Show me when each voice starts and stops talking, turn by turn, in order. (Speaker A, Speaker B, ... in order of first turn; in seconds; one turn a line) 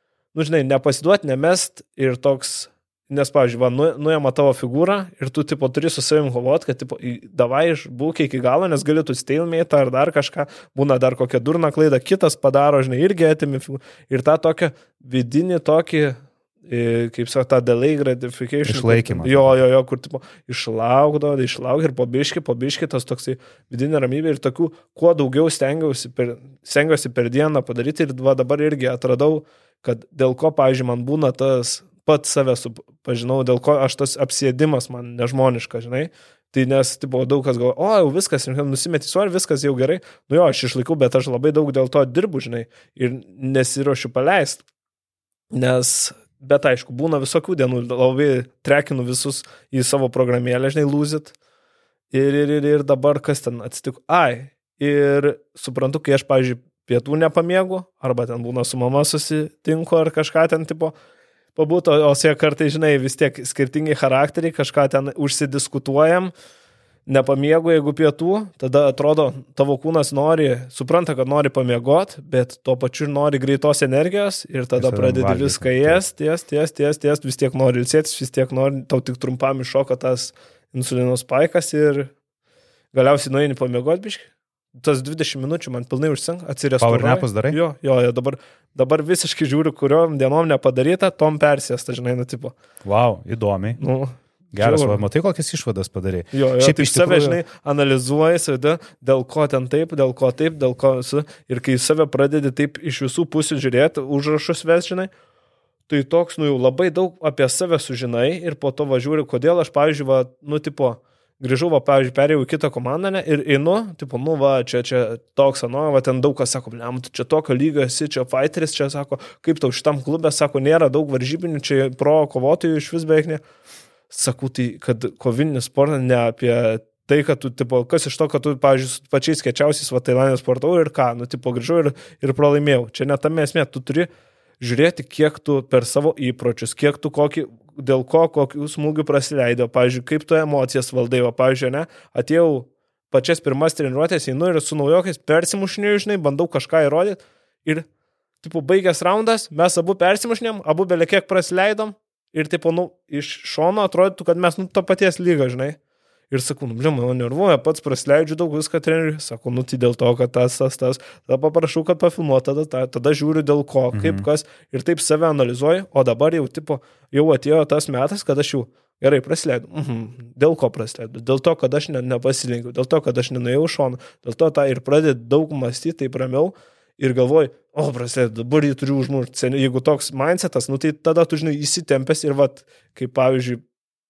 Speaker A: 0.3-44.6
Speaker B: 18.6-19.6
Speaker A: 45.5-51.3
Speaker A: 52.1-61.0
Speaker A: 61.6-66.3
Speaker A: 67.1-82.1
Speaker B: 74.8-76.0
Speaker A: 82.9-92.5
Speaker B: 86.8-87.6
Speaker B: 92.8-93.8
Speaker A: 93.8-95.0
Speaker B: 94.5-97.4
Speaker A: 96.3-105.1
Speaker A: 105.9-123.4
Speaker A: 124.1-134.1
Speaker A: 134.6-147.9
Speaker A: 148.4-155.8
Speaker A: 156.3-183.6
Speaker B: 163.9-164.3